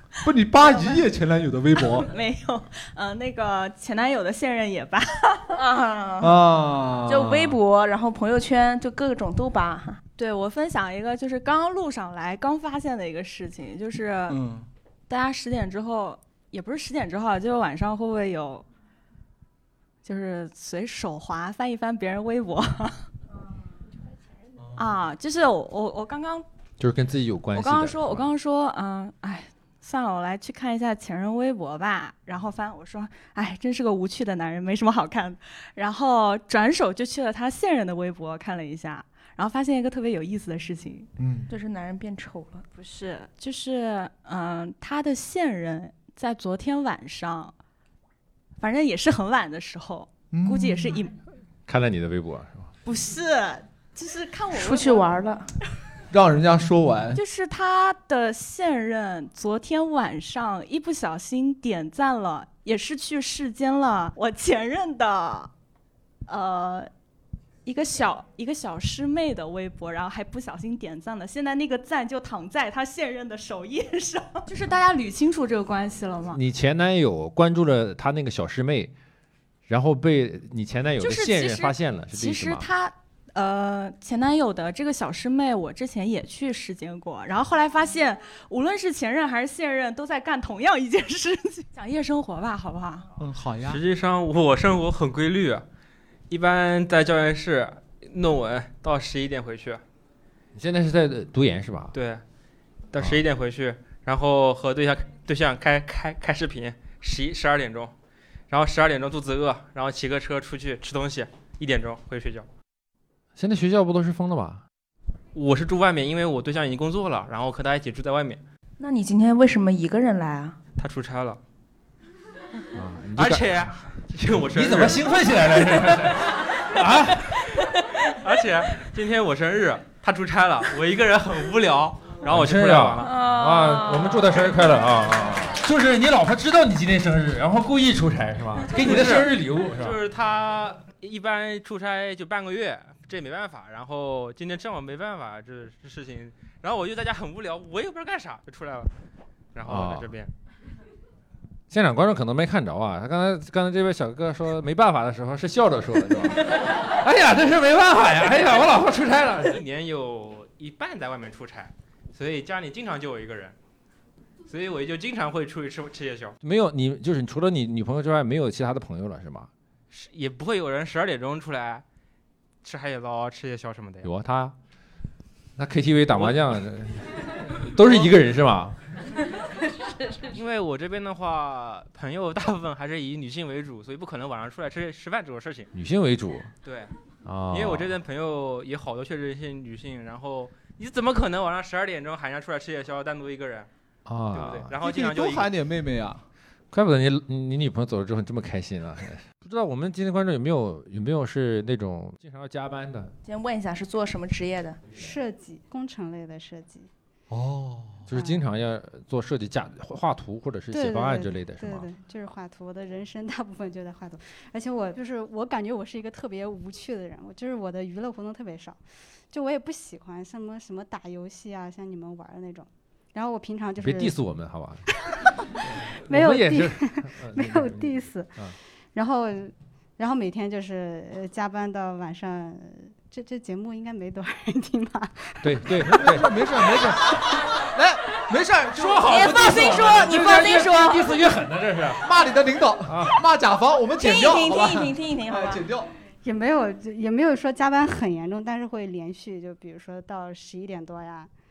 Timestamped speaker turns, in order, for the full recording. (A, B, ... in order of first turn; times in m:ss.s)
0:00.2-0:02.1 A
0:01.9-0:05.6 B
0:05.5-0:06.4 C
0:06.2-0:07.6 A
0:07.0-0:10.0 C
0:10.2-0:14.4 B
0:14.3-0:14.6 A
0:15.1-0:18.6 B
0:20.0-0:23.1 B
0:24.6-0:24.9 A
0:24.8-0:26.4 B
0:26.8-0:28.3 D
0:27.5-0:41.1 B
0:41.2-0:41.5 A
0:41.5-0:42.7 C
0:42.7-0:47.5 B
0:48.6-0:51.2 B
0:50.3-0:51.0 A
0:51.7-0:52.7 D
0:52.8-0:55.1 B
0:54.5-0:55.5 C
0:56.1-0:57.2 A
0:57.1-1:05.5 B
1:06.3-1:06.9 B
1:07.6-1:16.4 B
1:16.3-1:18.9 D
1:19.7-1:22.7 D
1:21.0-1:33.1 B
1:33.2-1:33.8 A
1:33.6-1:35.6 E
1:36.3-1:39.8 E
1:40.5-1:41.9 D
1:41.9-1:42.2 E
1:42.9-1:47.9 E
1:48.5-1:52.5 E
1:53.4-1:54.6 D
1:55.3-1:58.4 E
1:58.8-2:00.6 C
2:00.8-2:01.4 E
2:02.7-2:03.7 D
2:03.2-2:05.0 E
2:04.5-2:07.4 D
2:08.2-2:13.3 E
2:12.3-2:20.0 D
2:18.7-2:28.9 E
2:29.5-2:30.3 E
2:29.6-2:30.1 D
2:31.7-2:39.5 D
2:39.4-2:43.6 E
2:44.5-2:46.3 E
2:46.4-2:49.5 D
2:49.9-2:51.8 E
2:52.6-2:54.1 E
2:54.0-2:54.5 D
2:55.6-2:58.8 D
2:56.1-2:56.4 E
2:57.8-2:58.1 E
3:00.2-3:05.7 E
3:05.7-3:06.5 D
3:06.6-3:06.9 E
3:07.2-3:08.0 D
3:07.5-3:13.7 E
3:14.0-3:14.7 D
3:14.3-3:15.5 E
3:14.8-3:16.2 A
3:16.7-3:23.1 D
3:23.2-3:24.8 C
3:24.9-3:26.9 F
3:27.3-3:28.0 A
3:28.1-3:31.9 D
3:28.1-3:28.4 F
3:30.7-3:38.8 F
3:39.3-3:44.2 F
3:43.8-3:44.9 D
3:45.6-3:48.6 D
3:45.8-3:55.8 F
3:55.4-3:56.3 D
3:55.8-3:59.1 A
3:58.7-4:02.1 D
3:59.0-4:01.1 C
4:02.0-4:05.9 A
4:02.8-4:03.2 D
4:04.0-4:05.6 C
4:06.2-4:11.3 F